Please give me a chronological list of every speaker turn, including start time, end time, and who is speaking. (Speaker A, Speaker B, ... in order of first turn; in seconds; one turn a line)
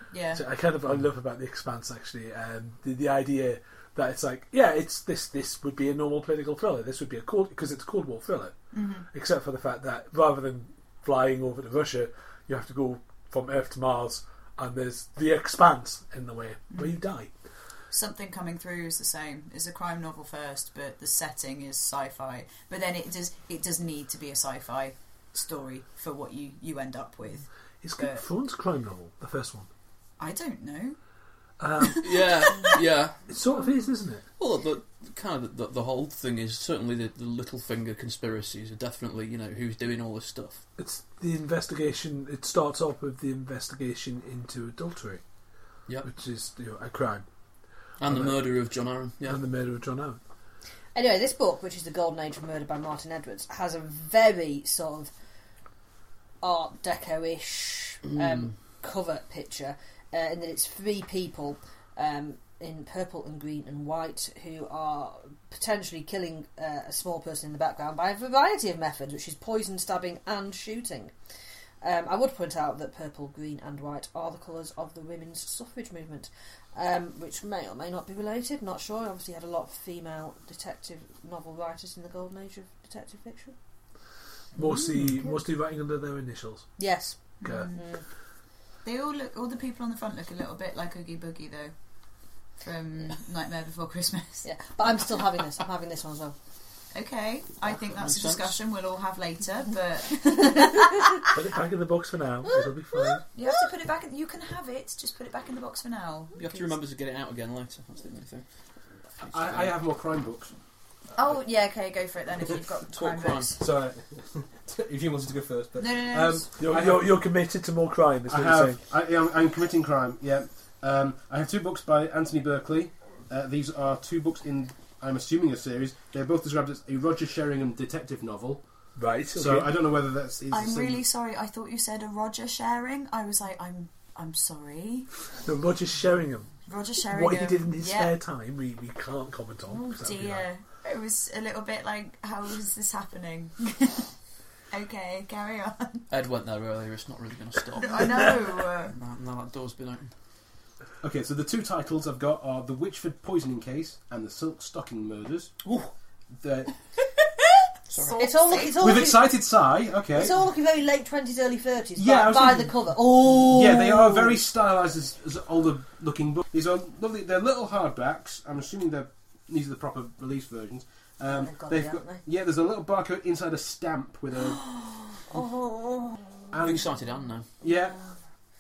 Speaker A: 0.1-0.4
Speaker B: 0.3-8.6
Speaker A: 8.7-9.1
Speaker B: 9.1-17.3
Speaker A: 17.9-27.5
Speaker B: 27.8-29.7
Speaker A: 30.2-31.0
Speaker B: 31.6-32.3
Speaker A: 31.8-32.8
Speaker C: 32.0-33.2
Speaker B: 33.3-34.3
Speaker C: 34.4-40.6
Speaker B: 40.8-45.2
Speaker B: 46.0-47.3
Speaker C: 48.0-49.4
Speaker B: 48.0-48.4
Speaker B: 49.2-50.2
Speaker D: 51.0-55.1
Speaker D: 56.4-71.1
Speaker D: 71.8-83.5
Speaker B: 84.6-86.7
Speaker D: 86.8-88.0
Speaker A: 87.4-87.8
Speaker A: 88.8-91.7
Speaker A: 92.6-94.5
Speaker D: 94.4-96.3
Speaker A: 96.9-101.3
Speaker C: 97.7-98.6
Speaker D: 100.5-100.8
Speaker B: 101.3-103.2
Speaker A: 103.3-106.8
Speaker C: 106.4-108.5
Speaker C: 109.2-109.7
Speaker E: 109.2-110.5
Speaker A: 111.2-113.6
Speaker C: 112.9-113.5
Speaker E: 113.6-117.1
Speaker A: 115.8-116.5
Speaker B: 116.6-118.8
Speaker E: 118.3-128.6
Speaker B: 129.0-129.7
Speaker E: 129.3-131.0
Speaker A: 130.5-135.1
Speaker B: 135.4-136.5
Speaker A: 136.7-138.2
Speaker B: 137.0-140.5
Speaker A: 139.7-144.1
Speaker A: 144.7-146.1
Speaker C: 146.1-150.1
Speaker A: 147.8-148.9
Speaker E: 151.0-155.5
Speaker C: 155.6-155.9
Speaker E: 156.3-156.8
Speaker C: 157.9-158.2
Speaker A: 157.9-158.7
Speaker D: 158.2-159.3
Speaker E: 158.8-160.4
Speaker D: 160.2-164.4
Speaker E: 162.0-174.7
Speaker D: 171.3-172.2
Speaker D: 174.5-176.4
Speaker E: 176.5-176.9
Speaker C: 176.6-177.5
Speaker E: 177.6-178.0
Speaker D: 177.7-178.0